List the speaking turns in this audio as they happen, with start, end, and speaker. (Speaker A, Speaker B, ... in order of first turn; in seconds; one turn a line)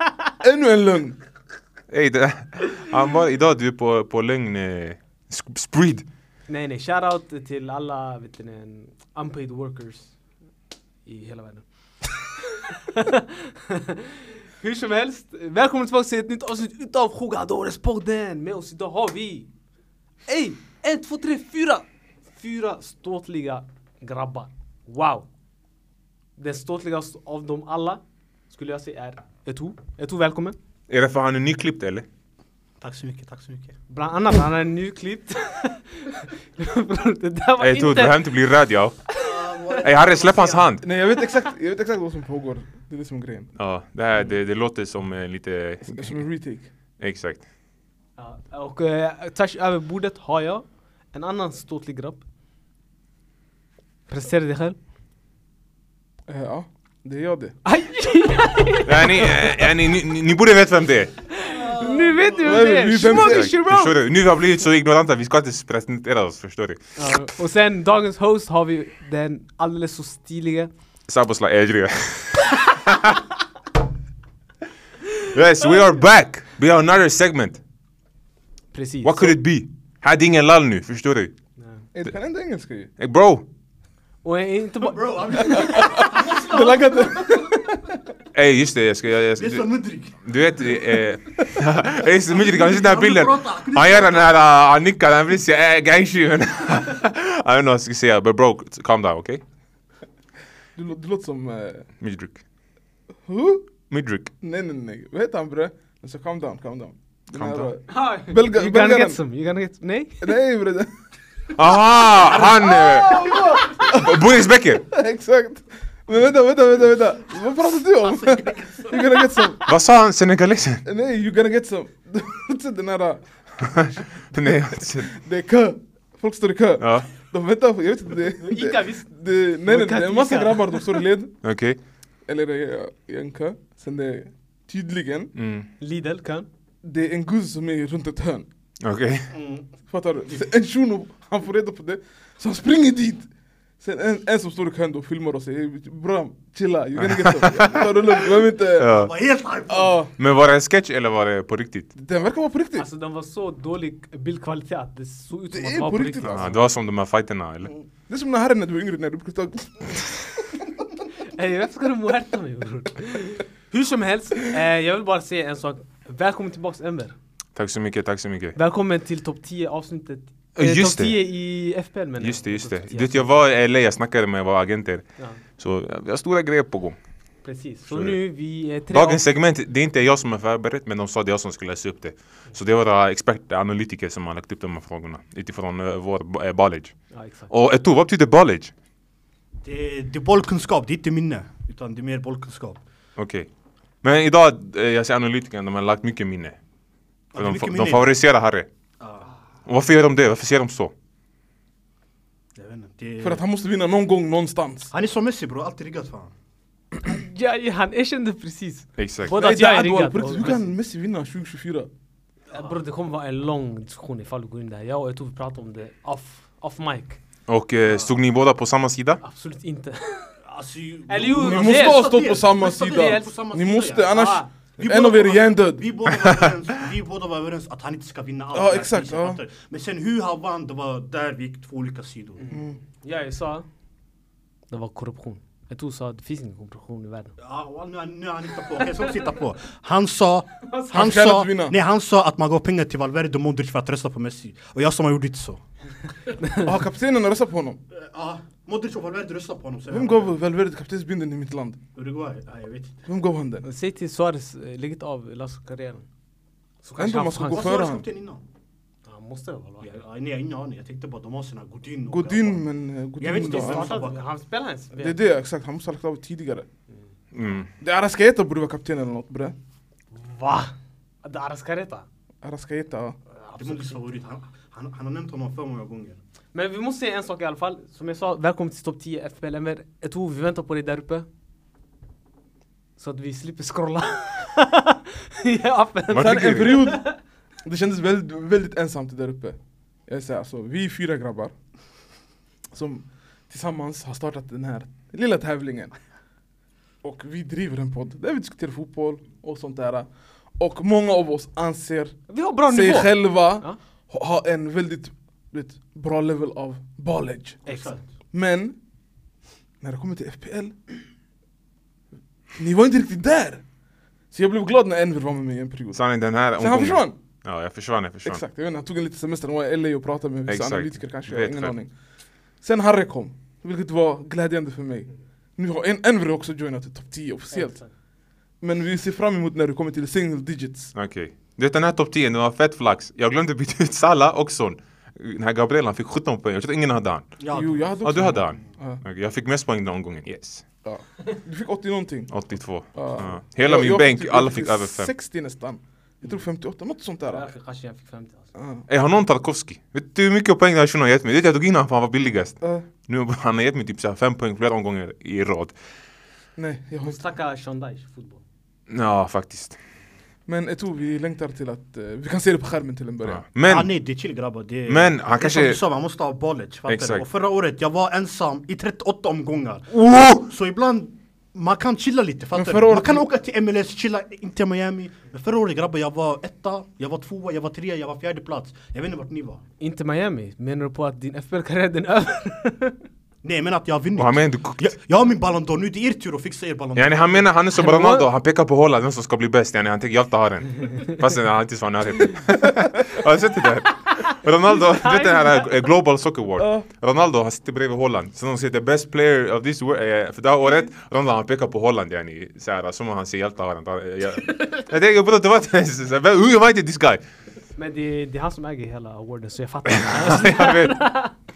Speaker A: 0.4-1.2
Speaker B: 1.9-6.0
Speaker C: 6.5-10.1
Speaker C: 11.1-19.5
Speaker C: 20.3-25.2
Speaker C: 26.4-30.6
Speaker B: 30.9-32.0
Speaker D: 32.8-33.7
Speaker C: 33.9-38.3
Speaker B: 37.6-39.0
Speaker C: 39.1-39.8
Speaker D: 39.1-40.7
Speaker B: 39.8-40.8
Speaker A: 40.8-43.5
Speaker B: 43.5-46.2
Speaker A: 45.9-46.7
Speaker B: 47.0-47.4
Speaker C: 48.2-52.2
Speaker C: 54.1-54.8
Speaker A: 56.3-57.5
Speaker C: 57.6-59.7
Speaker B: 58.8-61.1
Speaker C: 61.3-64.0
Speaker D: 61.5-62.8
Speaker A: 62.4-63.5
Speaker B: 62.9-66.8
Speaker C: 67.0-70.7
Speaker B: 71.1-73.2
Speaker B: 75.3-77.6
Speaker C: 78.7-79.4
Speaker B: 79.0-81.3
Speaker C: 81.6-81.8
Speaker A: 81.9-82.9
Speaker B: 83.0-83.5
Speaker C: 84.2-86.1
Speaker D: 84.8-87.2
Speaker A: 85.5-88.0
Speaker B: 88.3-99.4
Speaker D: 89.4-90.2
Speaker D: 92.3-94.3
Speaker A: 100.8-101.9
Speaker B: 102.0-102.4
Speaker A: 103.2-103.7
Speaker B: 103.9-104.3
Speaker A: 104.4-109.2
Speaker B: 107.3-107.7
Speaker C: 107.9-110.3
Speaker A: 110.2-110.9
Speaker B: 111.5-114.8
Speaker D: 112.2-113.5
Speaker A: 112.6-119.7
Speaker D: 118.2-119.0
Speaker B: 119.7-120.8
Speaker A: 120.8-124.0
Speaker B: 123.6-125.1
Speaker A: 125.0-131.3
Speaker B: 126.8-127.1
Speaker C: 128.4-131.0
Speaker B: 131.4-131.8
Speaker A: 132.3-135.3
Speaker B: 135.3-135.7
Speaker C: 135.8-136.5
Speaker A: 136.8-138.4
Speaker B: 138.8-139.3
Speaker D: 139.3-139.7
Speaker A: 139.9-143.3
Speaker A: 143.8-148.9
Speaker B: 147.0-147.9
Speaker B: 148.8-149.1
Speaker D: 148.8-150.0
Speaker A: 149.7-150.1
Speaker B: 150.2-151.9
Speaker A: 151.9-152.9
Speaker C: 152.8-156.5
Speaker A: 155.5-156.5
Speaker B: 156.2-157.7
Speaker A: 158.1-160.3
Speaker C: 161.3-167.1
Speaker B: 167.6-168.6
Speaker C: 168.6-173.3
Speaker B: 170.6-171.2
Speaker B: 172.2-175.0
Speaker B: 175.6-177.0
Speaker C: 177.4-179.2
Speaker B: 177.9-178.2
Speaker B: 178.9-186.9
Speaker C: 187.1-187.5
Speaker B: 187.5-188.7
Speaker D: 189.6-192.8
Speaker B: 193.2-193.5
Speaker B: 194.0-196.6
Speaker D: 197.3-198.1
Speaker B: 197.3-198.7
Speaker D: 199.0-199.3
Speaker B: 199.7-200.9
Speaker D: 202.5-203.4
Speaker A: 203.2-204.9
Speaker D: 204.9-206.3
Speaker C: 207.0-210.7
Speaker B: 209.0-209.4
Speaker A: 209.3-211.9
Speaker C: 212.5-217.2
Speaker B: 217.5-219.2
Speaker C: 219.2-220.3
Speaker D: 220.4-224.2
Speaker C: 221.1-223.4
Speaker A: 221.3-225.8
Speaker C: 224.1-224.5
Speaker D: 224.8-232.4
Speaker A: 228.5-229.4
Speaker C: 232.4-233.7
Speaker A: 232.5-232.8
Speaker C: 234.7-237.3
Speaker D: 237.4-245.6
Speaker A: 240.9-241.7
Speaker C: 246.3-246.7
Speaker A: 246.6-247.8
Speaker D: 247.9-250.3
Speaker A: 249.9-251.8
Speaker D: 251.9-253.1
Speaker A: 253.1-253.7
Speaker C: 253.6-256.1
Speaker C: 256.8-257.7
Speaker A: 257.0-258.1
Speaker D: 257.5-258.4
Speaker C: 259.0-260.0
Speaker D: 259.8-262.6
Speaker A: 262.1-264.0
Speaker D: 263.2-264.2
Speaker C: 263.5-265.2
Speaker A: 264.9-266.6
Speaker B: 267.3-267.7
Speaker A: 267.8-269.5
Speaker C: 270.1-272.1
Speaker A: 272.4-273.2
Speaker C: 273.3-274.0
Speaker D: 273.5-276.2
Speaker C: 276.5-281.3
Speaker C: 283.0-287.2
Speaker B: 286.1-286.8
Speaker A: 286.2-287.0
Speaker A: 287.6-291.5
Speaker A: 292.7-295.9
Speaker A: 297.0-307.6
Speaker C: 302.3-303.8
Speaker D: 307.6-308.0
Speaker A: 308.3-308.7
Speaker A: 309.8-310.7
Speaker A: 312.6-313.6
Speaker A: 314.3-316.0
Speaker B: 315.9-318.4
Speaker A: 316.6-317.1
Speaker A: 318.2-321.9
Speaker B: 320.5-321.7
Speaker A: 322.6-327.8
Speaker C: 327.5-327.9
Speaker A: 328.6-330.9
Speaker B: 330.9-337.3
Speaker D: 337.4-338.6
Speaker A: 337.5-339.0
Speaker B: 338.0-340.6
Speaker A: 340.8-342.3
Speaker B: 342.3-345.1
Speaker A: 342.9-347.5
Speaker C: 347.2-348.5
Speaker A: 348.5-348.8
Speaker B: 348.9-355.7
Speaker A: 352.6-352.9
Speaker A: 356.6-357.2
Speaker C: 357.0-358.4
Speaker B: 358.9-359.8
Speaker A: 360.5-363.4
Speaker B: 363.2-363.9
Speaker D: 363.6-379.6
Speaker B: 364.9-365.8
Speaker B: 366.9-367.2
Speaker A: 372.5-373.3
Speaker C: 379.8-383.0
Speaker D: 383.4-387.5
Speaker B: 384.2-384.9
Speaker B: 386.9-407.2
Speaker C: 387.9-388.2
Speaker C: 394.1-395.9
Speaker A: 396.6-396.9
Speaker C: 407.8-411.3
Speaker B: 409.9-411.1